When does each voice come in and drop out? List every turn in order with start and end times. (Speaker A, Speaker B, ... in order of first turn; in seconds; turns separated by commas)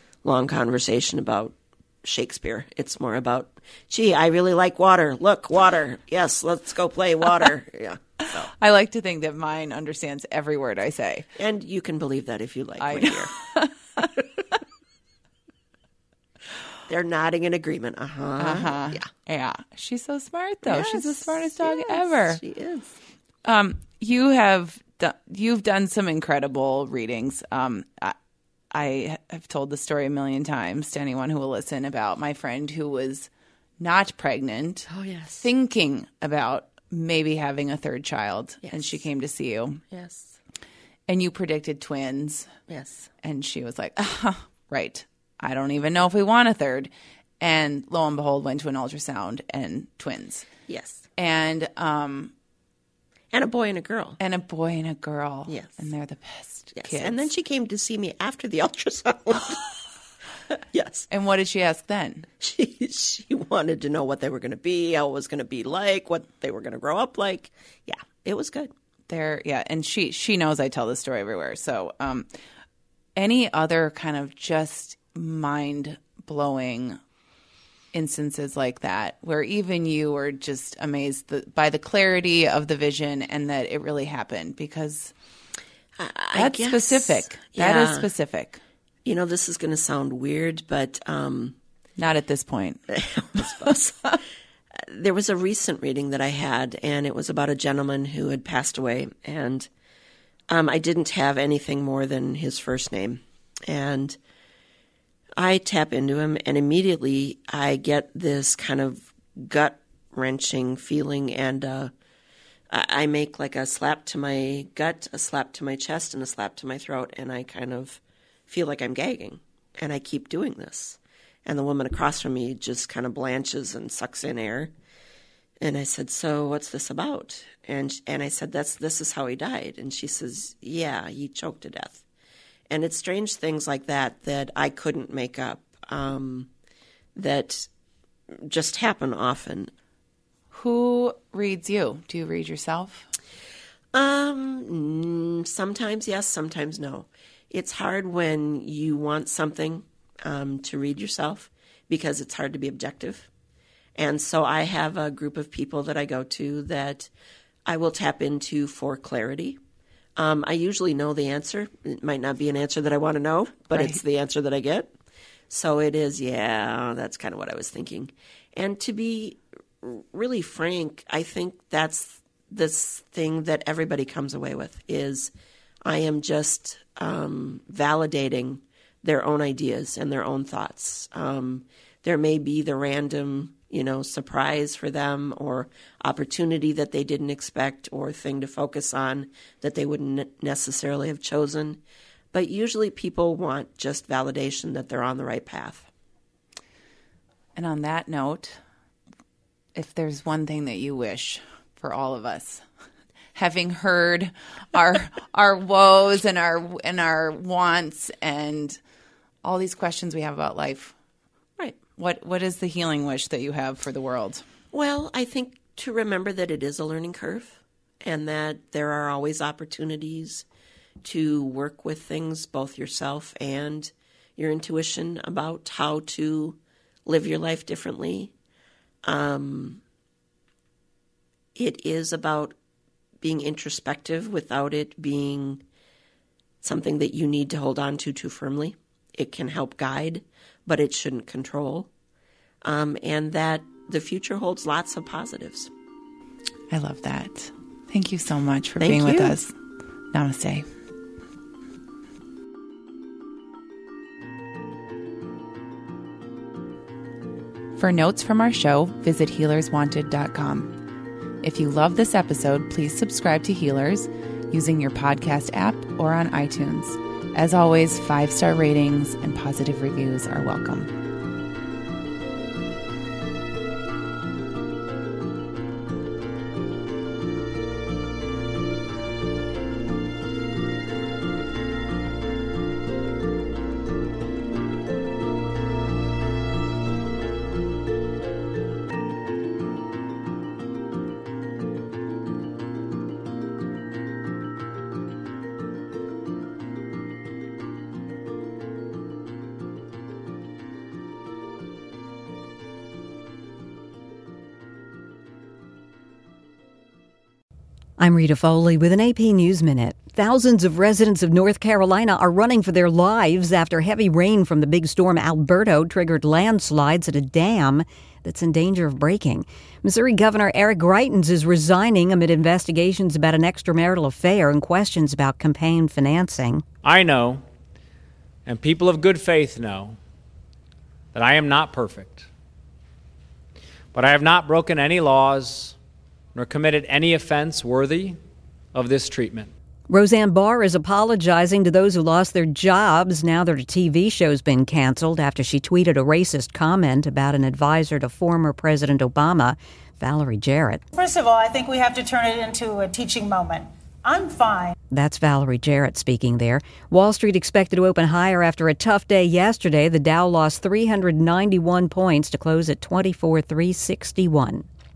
Speaker A: 0.2-8.5, Speaker B: 8.5-11.3, Speaker A: 11.3-13.3, Speaker B: 12.8-14.2, Speaker A: 16.9-19.1, Speaker B: 18.4-22.4, Speaker A: 20.6-23.0, Speaker B: 23.4-28.1, Speaker B: 28.7-34.9, Speaker A: 34.9-35.5, Speaker B: 35.4-39.8, Speaker A: 38.6-39.0, Speaker A: 39.9-40.4, Speaker B: 41.1-42.5, Speaker A: 42.7-43.1, Speaker B: 43.2-50.5, Speaker A: 50.7-51.0, Speaker B: 51.2-52.3, Speaker A: 53.3-54.2, Speaker B: 54.2-57.3, Speaker A: 55.5-55.8, Speaker A: 56.7-59.6, Speaker A: 60.7-61.1, Speaker B: 61.1-62.3, Speaker A: 62.4-68.7, Speaker B: 69.1-72.3, Speaker B: 73.2-77.0, Speaker B: 77.9-85.1, Speaker A: 86.0-88.1, Speaker B: 86.3-88.6, Speaker A: 89.0-91.6, Speaker B: 92.0-93.7, Speaker A: 92.9-94.2, Speaker A: 94.8-99.7, Speaker A: 100.5-104.2, Speaker A: 105.4-111.9, Speaker A: 112.7-124.7, Speaker A: 125.6-132.0, Speaker A: 132.7-136.5, Speaker A: 137.2-137.7, Speaker A: 138.3-139.7, Speaker B: 140.5-143.1, Speaker A: 143.9-153.3, Speaker A: 153.9-157.1, Speaker A: 157.7-159.6, Speaker A: 160.2-164.9, Speaker B: 163.7-164.0, Speaker A: 165.5-175.3, Speaker A: 175.8-191.8, Speaker A: 192.3-195.9, Speaker B: 197.6-198.6, Speaker B: 199.7-202.6, Speaker B: 203.3-208.8, Speaker B: 209.4-210.9, Speaker B: 212.0-214.4, Speaker A: 214.7-220.4, Speaker A: 221.0-228.3, Speaker A: 229.0-229.8, Speaker A: 231.5-232.5, Speaker A: 233.2-235.6, Speaker A: 236.6-241.9, Speaker A: 242.6-245.7, Speaker B: 246.7-249.5, Speaker A: 248.8-249.3, Speaker B: 250.1-250.7, Speaker B: 257.8-260.7, Speaker B: 261.4-270.9, Speaker C: 308.0-326.6, Speaker D: 326.8-327.4, Speaker D: 328.4-330.0, Speaker D: 331.1-332.3, Speaker D: 333.9-335.8, Speaker D: 336.3-338.2, Speaker D: 338.7-339.5, Speaker C: 339.9-350.8, Speaker E: 350.9-354.7, Speaker C: 354.9-364.6